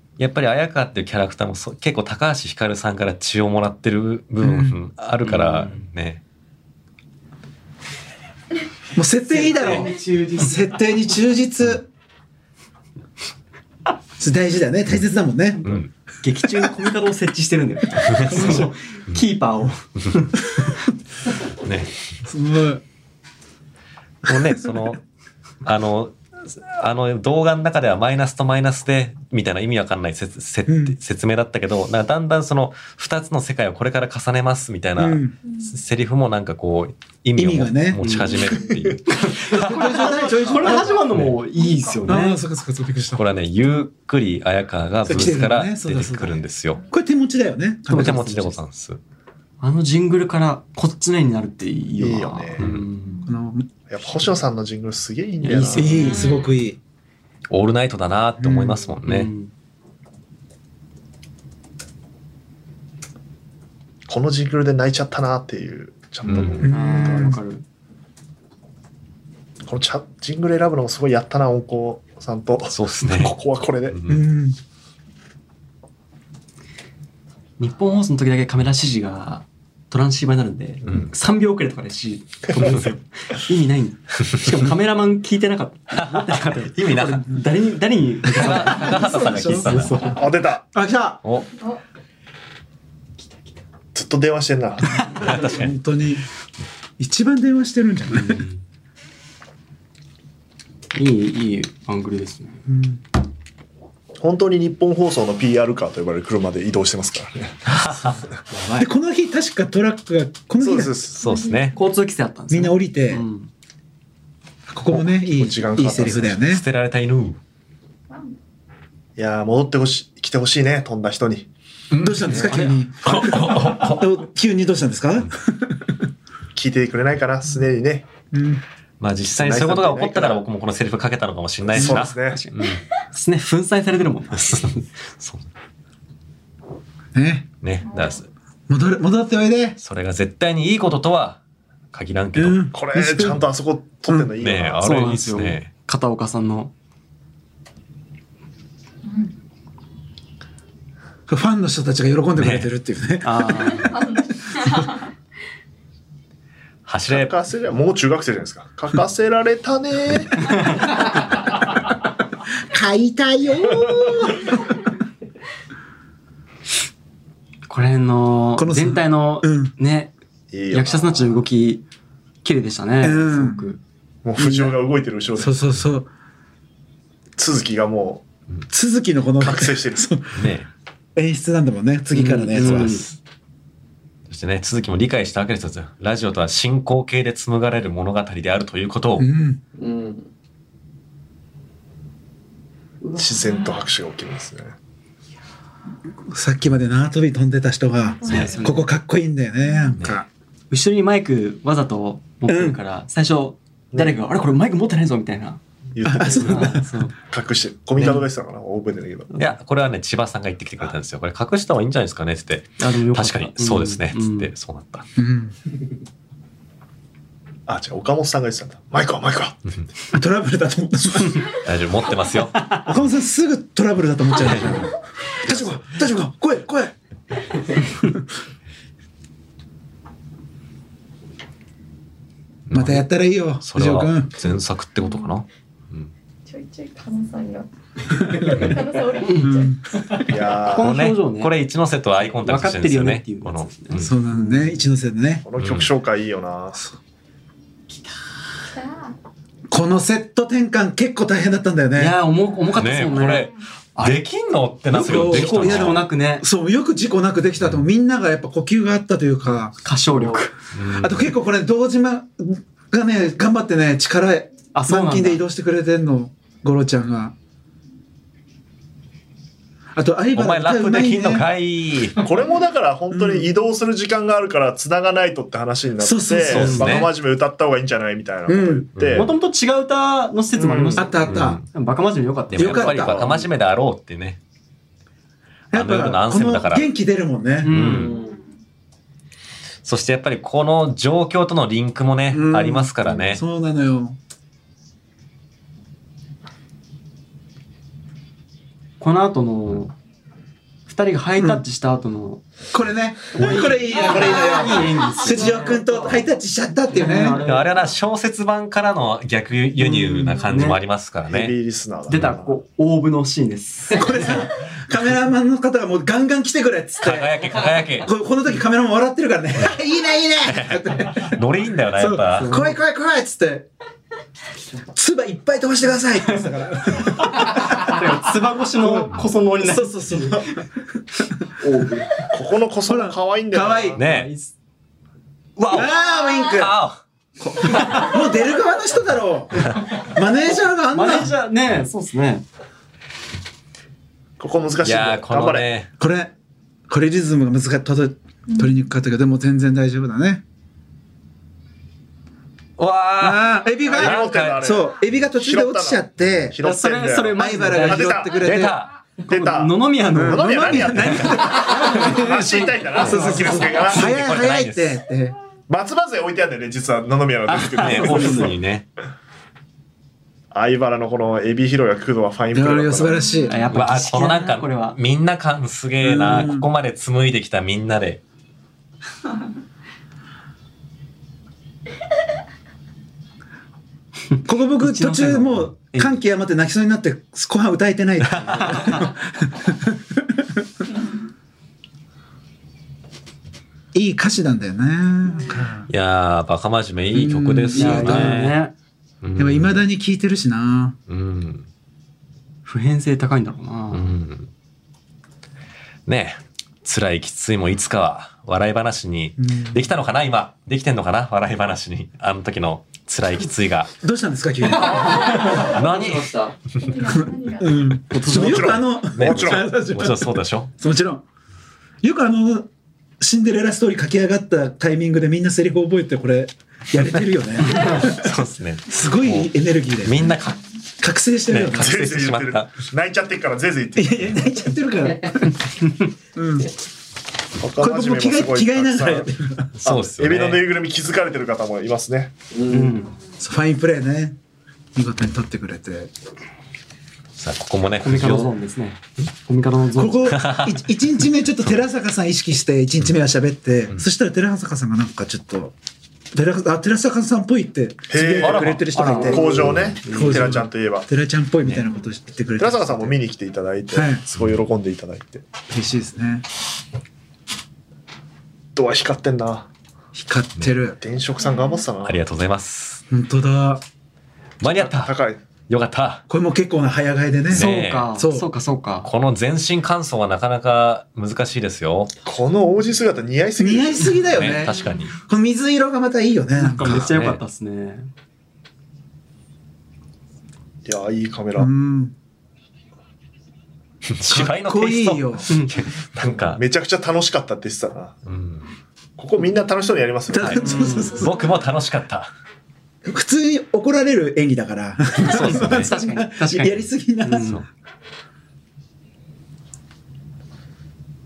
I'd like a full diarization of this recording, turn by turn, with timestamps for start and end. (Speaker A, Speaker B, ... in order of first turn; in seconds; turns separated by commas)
Speaker A: 0.2-6.2, Speaker B: 4.4-4.8, Speaker C: 5.2-5.9, Speaker B: 8.9-11.9, Speaker C: 9.2-10.7, Speaker B: 14.2-15.7, Speaker A: 15.6-15.9, Speaker C: 15.6-20.3, Speaker A: 18.0-19.2, Speaker B: 18.3-18.6, Speaker A: 21.6-22.0, Speaker B: 22.2-22.8, Speaker A: 24.2-25.0, Speaker B: 24.3-24.9, Speaker A: 25.6-39.8, Speaker B: 30.7-31.0, Speaker B: 35.0-35.3, Speaker D: 35.4-35.8, Speaker B: 37.4-38.0, Speaker C: 38.0-38.5, Speaker C: 39.1-42.4, Speaker B: 39.5-41.0, Speaker D: 40.4-42.2, Speaker B: 42.0-43.2, Speaker A: 43.1-46.8, Speaker B: 45.1-48.5, Speaker C: 47.9-48.5, Speaker A: 47.9-49.0, Speaker C: 49.6-53.2, Speaker E: 52.0-52.6, Speaker A: 52.6-52.9, Speaker D: 53.0-53.4, Speaker B: 53.2-53.7, Speaker E: 53.9-56.1, Speaker C: 55.4-56.3, Speaker B: 55.7-56.8, Speaker D: 56.1-56.5, Speaker A: 57.5-59.3, Speaker B: 58.4-58.8, Speaker C: 59.0-59.5, Speaker E: 64.1-66.7, Speaker A: 66.2-66.7, Speaker B: 66.6-67.4, Speaker C: 66.7-67.6, Speaker E: 69.7-74.0, Speaker A: 72.7-74.2, Speaker B: 74.1-74.6, Speaker C: 77.6-90.2, Speaker E: 82.6-82.8, Speaker A: 85.9-87.2, Speaker A: 88.3-90.0, Speaker B: 88.4-90.1, Speaker E: 90.0-90.7, Speaker B: 90.7-91.2, Speaker C: 93.3-93.5, Speaker E: 93.9-95.1, Speaker A: 95.2-95.7, Speaker B: 95.2-96.2, Speaker B: 97.0-98.5, Speaker C: 98.1-98.6, Speaker C: 100.9-102.6, Speaker B: 102.7-103.0, Speaker E: 104.2-107.7, Speaker A: 107.7-108.2, Speaker C: 108.5-108.8, Speaker B: 108.8-111.1, Speaker E: 110.6-111.2, Speaker A: 111.2-111.8, Speaker D: 111.2-111.8, Speaker C: 111.7-113.5, Speaker B: 112.5-113.2, Speaker B: 114.7-116.6, Speaker E: 115.2-116.4, Speaker A: 116.4-117.4, Speaker D: 118.1-118.3, Speaker E: 119.2-121.5, Speaker A: 121.9-122.5, Speaker B: 122.0-126.0, Speaker C: 122.3-122.8, Speaker A: 123.0-124.1, Speaker E: 126.5-128.1, Speaker B: 128.3-128.6, Speaker A: 129.0-132.8, Speaker E: 129.3-130.4, Speaker E: 131.6-132.4, Speaker B: 131.7-132.0, Speaker C: 132.2-134.8, Speaker A: 134.3-135.5, Speaker B: 137.1-137.5, Speaker A: 137.6-138.2, Speaker D: 137.8-138.2, Speaker B: 138.7-139.8, Speaker A: 139.8-141.4, Speaker A: 141.9-142.7, Speaker B: 142.3-143.5, Speaker E: 142.7-144.8, Speaker A: 144.4-145.7, Speaker C: 144.8-146.7, Speaker D: 149.0-149.3, Speaker B: 151.3-153.8, Speaker A: 152.4-152.7, Speaker C: 153.2-153.9, Speaker D: 153.7-155.0, Speaker A: 156.8-157.3, Speaker E: 157.1-160.7, Speaker B: 162.7-164.5, Speaker C: 167.7-170.1, Speaker B: 168.6-169.7, Speaker E: 170.5-171.4, Speaker C: 170.7-171.8, Speaker C: 172.4-173.8, Speaker B: 173.0-173.7, Speaker E: 174.2-175.7, Speaker B: 174.4-174.7, Speaker B: 175.4-176.1, Speaker E: 177.4-178.2, Speaker B: 178.7-180.5, Speaker E: 179.4-180.1, Speaker A: 180.3-180.7, Speaker B: 181.1-183.0, Speaker C: 182.1-183.0, Speaker A: 182.6-183.2, Speaker A: 184.3-189.3, Speaker B: 189.2-189.6, Speaker F: 189.7-190.3, Speaker F: 193.0-193.8, Speaker E: 193.2-194.7, Speaker B: 196.3-200.3, Speaker D: 198.0-198.8, Speaker C: 198.3-198.8, Speaker A: 198.3-198.6, Speaker D: 199.7-199.9, Speaker C: 200.7-207.1, Speaker B: 202.5-202.8, Speaker E: 205.9-209.3, Speaker B: 206.2-206.9, Speaker A: 209.4-215.1, Speaker C: 212.8-214.5, Speaker B: 215.2-215.6, Speaker E: 217.7-219.6, Speaker B: 220.1-221.5, Speaker A: 221.4-222.9, Speaker B: 222.8-226.9, Speaker A: 224.4-224.8, Speaker A: 232.7-233.1, Speaker B: 232.7-234.3, Speaker A: 233.6-236.1, Speaker D: 235.0-235.4, Speaker D: 236.4-239.8, Speaker A: 238.5-238.9, Speaker B: 239.4-239.8, Speaker E: 240.3-241.0, Speaker C: 240.7-241.5, Speaker A: 240.7-244.1, Speaker C: 242.2-244.6, Speaker B: 244.0-245.4, Speaker E: 245.4-246.8, Speaker A: 245.6-245.9, Speaker D: 248.7-249.2, Speaker B: 249.7-252.2, Speaker C: 251.9-254.2, Speaker A: 252.8-256.1, Speaker D: 253.1-253.5, Speaker C: 254.9-256.4, Speaker B: 254.9-259.8, Speaker A: 257.6-257.9, Speaker C: 259.8-260.5, Speaker F: 260.1-260.4, Speaker A: 260.7-261.3, Speaker B: 260.9-267.3, Speaker C: 264.7-265.4, Speaker B: 269.9-271.5, Speaker A: 270.3-272.3, Speaker E: 272.2-279.3, Speaker B: 273.1-273.5, Speaker B: 276.0-276.9, Speaker A: 276.4-277.1, Speaker C: 276.6-276.9, Speaker B: 278.5-278.9, Speaker A: 278.9-279.3, Speaker C: 279.1-283.4, Speaker F: 280.6-281.1, Speaker B: 281.0-281.6, Speaker A: 281.2-281.6, Speaker A: 282.5-284.4, Speaker B: 282.5-283.2, Speaker E: 282.9-283.4, Speaker A: 285.7-286.9, Speaker B: 285.7-287.7, Speaker C: 287.6-288.1, Speaker A: 287.7-288.1, Speaker F: 287.8-288.4, Speaker A: 289.8-293.4, Speaker B: 292.3-294.2, Speaker C: 299.0-299.9, Speaker C: 300.9-302.4, Speaker B: 302.7-307.4, Speaker C: 303.3-306.2, Speaker C: 306.9-307.8, Speaker A: 307.3-311.6, Speaker C: 309.8-310.8, Speaker E: 311.3-312.6, Speaker C: 312.1-314.2, Speaker B: 313.9-321.4, Speaker A: 317.0-318.1, Speaker A: 320.4-322.5, Speaker B: 321.9-323.7, Speaker C: 322.3-322.8, Speaker B: 324.9-328.1, Speaker C: 327.3-330.4, Speaker B: 328.8-330.6, Speaker F: 331.6-332.3, Speaker E: 332.3-334.0, Speaker B: 332.9-334.0, Speaker A: 334.0-334.3, Speaker C: 334.0-334.5, Speaker A: 335.6-337.0, Speaker B: 335.7-336.8, Speaker B: 337.4-341.3, Speaker C: 340.9-342.4, Speaker E: 344.4-345.7, Speaker A: 344.8-345.9, Speaker B: 346.0-346.3, Speaker B: 346.9-350.4, Speaker D: 348.5-348.8, Speaker A: 352.8-354.9, Speaker B: 353.2-356.6, Speaker E: 353.8-358.4, Speaker C: 356.6-358.3, Speaker B: 357.4-358.8, Speaker A: 358.4-358.9, Speaker C: 359.2-363.9, Speaker E: 359.3-364.1, Speaker B: 360.1-365.3, Speaker A: 363.0-365.0, Speaker E: 365.7-368.6, Speaker A: 367.5-368.9, Speaker C: 368.0-368.3, Speaker E: 370.5-373.2, Speaker B: 372.5-373.6, Speaker D: 373.1-373.7, Speaker C: 373.5-375.0, Speaker A: 373.7-378.2, Speaker B: 376.0-376.7, Speaker B: 384.4-390.6, Speaker C: 384.8-386.2, Speaker A: 388.2-388.9, Speaker C: 388.6-389.0, Speaker B: 393.9-395.9, Speaker A: 395.9-398.6, Speaker B: 397.1-398.4, Speaker C: 397.7-398.7, Speaker A: 399.2-399.8, Speaker B: 399.4-401.0, Speaker A: 401.1-401.6, Speaker C: 402.6-404.1, Speaker A: 403.9-404.5, Speaker A: 406.1-413.9, Speaker B: 409.4-409.9, Speaker B: 414.0-415.1, Speaker F: 414.7-416.6, Speaker A: 415.6-416.4, Speaker D: 416.7-418.0, Speaker B: 417.2-421.2, Speaker C: 418.1-418.7, Speaker E: 418.3-419.7, Speaker A: 418.3-420.7, Speaker B: 422.0-422.7, Speaker B: 423.2-428.3, Speaker A: 427.6-429.5, Speaker B: 428.9-430.4, Speaker A: 430.0-430.6, Speaker B: 431.0-432.1, Speaker A: 431.5-432.9, Speaker E: 431.8-434.4, Speaker B: 433.9-435.6, Speaker B: 436.3-436.7, Speaker E: 437.6-439.3, Speaker B: 437.8-439.7, Speaker A: 439.8-440.7, Speaker E: 439.8-442.3, Speaker F: 442.5-443.0, Speaker C: 442.7-443.1, Speaker B: 443.4-444.4, Speaker B: 444.9-446.1, Speaker A: 447.4-448.5, Speaker C: 448.0-450.4, Speaker B: 449.9-455.7, Speaker A: 450.3-450.9, Speaker B: 456.3-463.2, Speaker E: 458.1-461.1, Speaker A: 458.4-458.8, Speaker C: 458.9-460.6, Speaker A: 459.5-460.0, Speaker E: 462.6-465.4, Speaker B: 463.9-464.2, Speaker A: 464.3-464.6, Speaker B: 465.7-466.4, Speaker E: 468.7-469.7, Speaker B: 470.1-471.0, Speaker E: 471.0-472.2, Speaker D: 471.4-471.8, Speaker A: 472.0-473.0, Speaker B: 473.1-473.8, Speaker A: 474.6-475.1, Speaker E: 474.6-475.4, Speaker A: 475.7-476.2, Speaker B: 476.3-478.5, Speaker A: 477.5-478.1, Speaker C: 477.5-479.1, Speaker A: 479.0-482.1, Speaker E: 482.2-484.6, Speaker B: 483.6-487.1, Speaker A: 484.3-485.1, Speaker C: 486.6-488.1, Speaker A: 486.8-487.4, Speaker E: 490.9-491.7, Speaker B: 491.6-492.1, Speaker A: 494.1-496.6, Speaker B: 494.3-495.5, Speaker E: 496.4-498.2, Speaker A: 498.2-498.7, Speaker E: 499.2-501.1, Speaker B: 500.3-501.4, Speaker A: 500.4-502.3, Speaker C: 500.6-501.3, Speaker B: 503.0-507.6, Speaker A: 505.3-505.9, Speaker C: 505.3-507.6